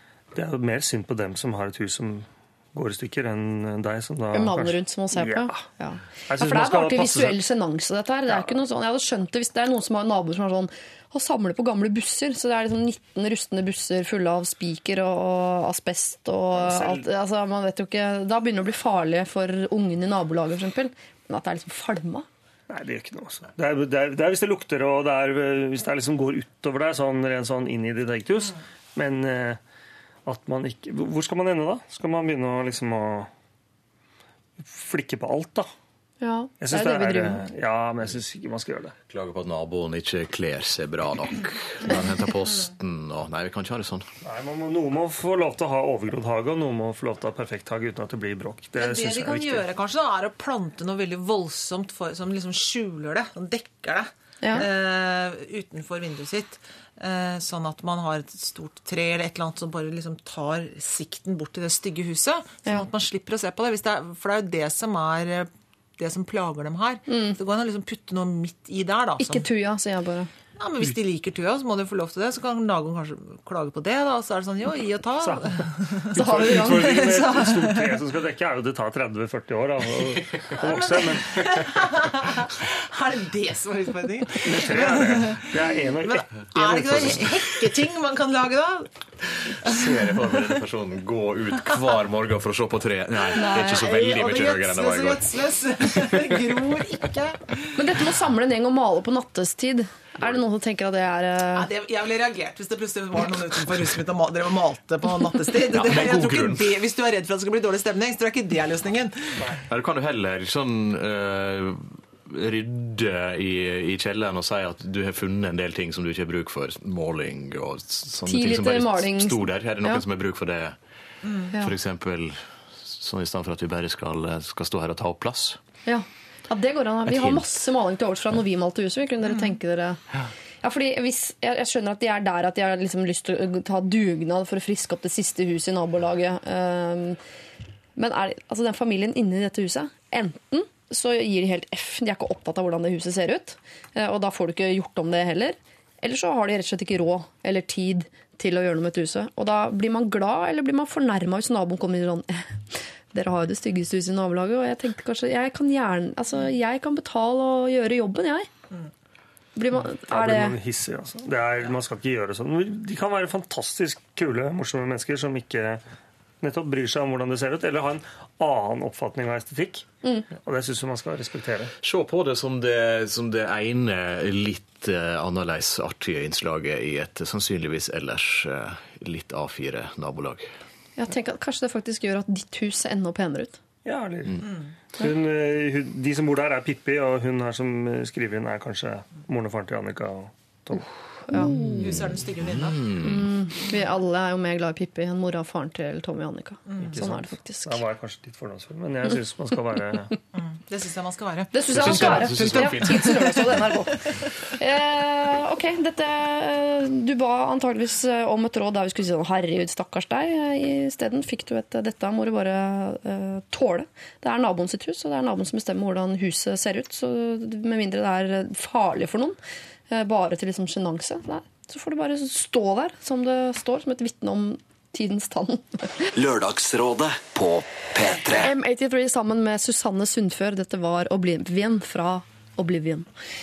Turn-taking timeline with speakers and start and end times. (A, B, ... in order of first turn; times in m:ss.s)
0:00.3-0:05.6 A
0:04.3-0:22.2 B
0:06.3-0:07.4 A
0:16.6-0:17.0 A
0:22.7-0:29.6 A
0:30.2-0:33.3 A
0:34.6-0:35.7 A
0:36.2-0:37.4 B
0:36.6-0:38.9 A
0:39.1-0:44.1 C
0:44.2-0:49.6 A
0:48.8-1:09.5 D
0:54.4-0:54.7 B
1:07.1-1:07.4 B
1:09.2-1:10.3 B
1:10.6-1:18.0 D
1:15.2-1:21.6 A
1:16.1-1:17.1 B
1:20.6-1:28.9 D
1:24.4-1:27.3 A
1:29.5-1:30.4 D
1:29.6-1:35.3 C
1:33.4-1:33.9 B
1:33.5-1:37.4 D
1:35.9-1:36.4 C
1:37.8-1:41.7 B
1:41.5-1:49.4 D
1:45.7-1:46.8 C
1:49.7-2:00.8 C
1:58.2-2:00.0 B
2:01.2-2:01.5 D
2:01.5-2:05.6 C
2:05.8-2:10.0 B
2:07.0-2:07.4 C
2:10.6-2:17.2 B
2:18.0-2:38.5 B
2:39.6-2:40.5 B
2:39.9-2:45.8 A
2:46.4-2:49.9 A
2:50.4-2:51.7 A
2:51.8-3:00.5 C
3:01.0-3:03.6 B
3:03.8-3:04.4 A
3:04.4-3:04.7 D
3:05.0-3:10.9 A
3:11.3-3:11.5 B
3:11.3-3:13.0 D
3:11.4-3:13.3 C
3:13.0-3:17.8 B
3:16.7-3:16.9 D
3:16.9-3:20.1 A
3:20.3-3:23.7 D
3:21.5-3:24.0 B
3:21.7-3:23.9 C
3:24.6-3:39.4 B
3:39.9-3:46.0 B
3:46.1-3:48.5 E
3:48.3-3:53.1 B